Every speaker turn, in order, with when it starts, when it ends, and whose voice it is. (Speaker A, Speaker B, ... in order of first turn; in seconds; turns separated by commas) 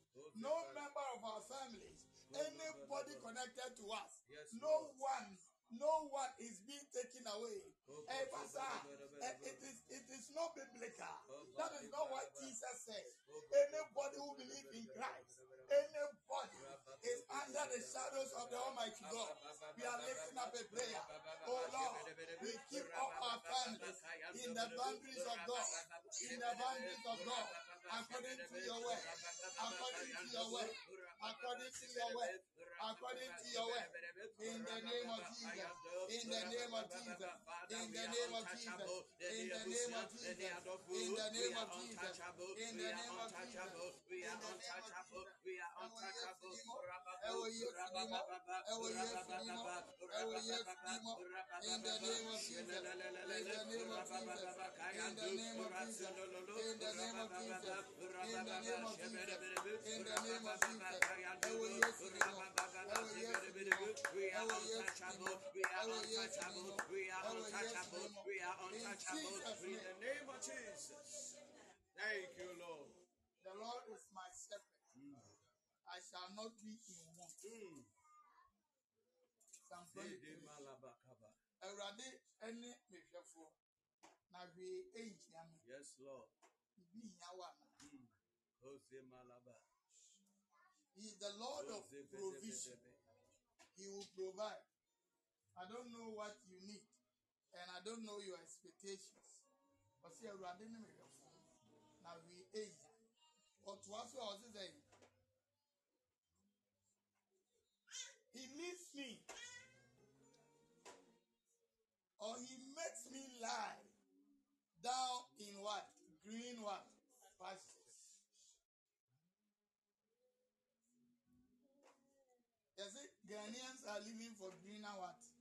Speaker A: 0.1-0.9, Speaker B: 0.3-69.9, Speaker A: 2.3-3.3, Speaker A: 4.2-5.0, Speaker A: 7.8-9.6, Speaker A: 11.3-12.5, Speaker A: 13.2-15.9, Speaker A: 16.6-71.3, Speaker A: 71.9-73.0, Speaker B: 73.4-74.8, Speaker A: 74.9-75.3, Speaker B: 75.8-77.5, Speaker A: 77.4-77.9, Speaker B: 79.7-80.6, Speaker A: 79.9-81.4, Speaker B: 81.6-83.5, Speaker B: 84.3-85.6, Speaker A: 85.6-86.3, Speaker B: 86.8-87.8, Speaker A: 87.8-89.6, Speaker B: 90.9-92.8, Speaker A: 91.5-93.0, Speaker B: 93.7-94.7, Speaker B: 95.5-96.9, Speaker B: 97.5-99.4, Speaker B: 100.0-101.4, Speaker B: 102.0-103.0, Speaker B: 103.6-104.8, Speaker B: 108.3-109.2, Speaker B: 112.2-113.9, Speaker B: 114.8-117.9, Speaker B: 122.7-125.3